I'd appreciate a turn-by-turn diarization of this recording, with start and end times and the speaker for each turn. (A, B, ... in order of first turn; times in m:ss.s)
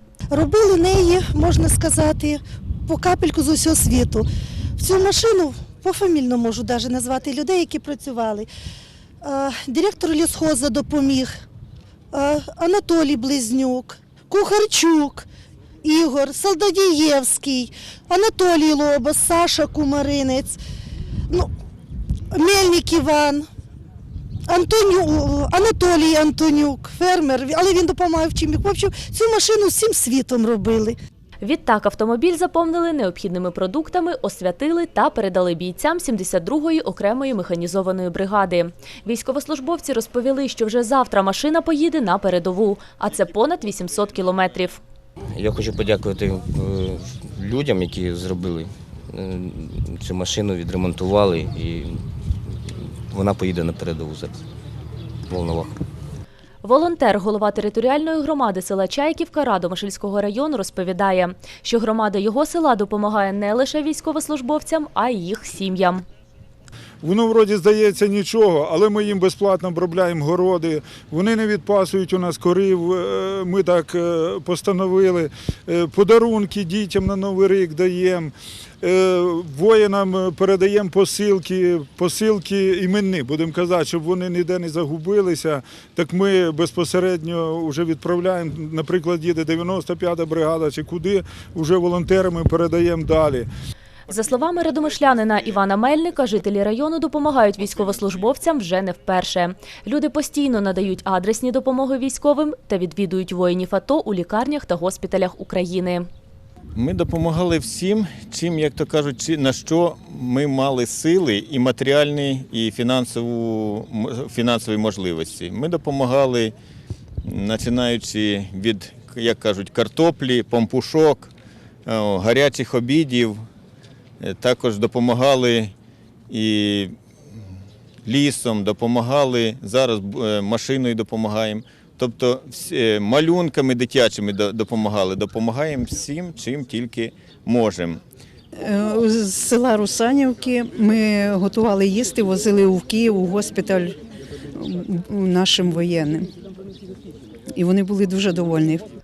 0:00.3-0:04.3 A
0:04.8-0:08.5 A
0:09.2-0:11.4 A
0:12.1-0:15.3 A
0:15.8-0:20.6 A
0:22.3-0:23.5 A
0:24.5-0:31.0 A
0:31.4-0:44.8 B
0:45.3-0:52.0 C
0:52.7-0:54.4 C
0:55.3-0:55.8 C
0:56.6-1:06.0 B
1:07.0-1:33.5 D
1:34.1-1:46.1 B
1:46.8-1:56.5 E
1:57.2-2:01.3 E
2:01.9-2:03.4 E
2:04.2-2:05.7 E
2:06.3-2:07.0 E
2:08.0-2:18.0 E
2:18.6-2:24.0 F
2:24.6-2:26.3 F
2:27.6-2:28.8 F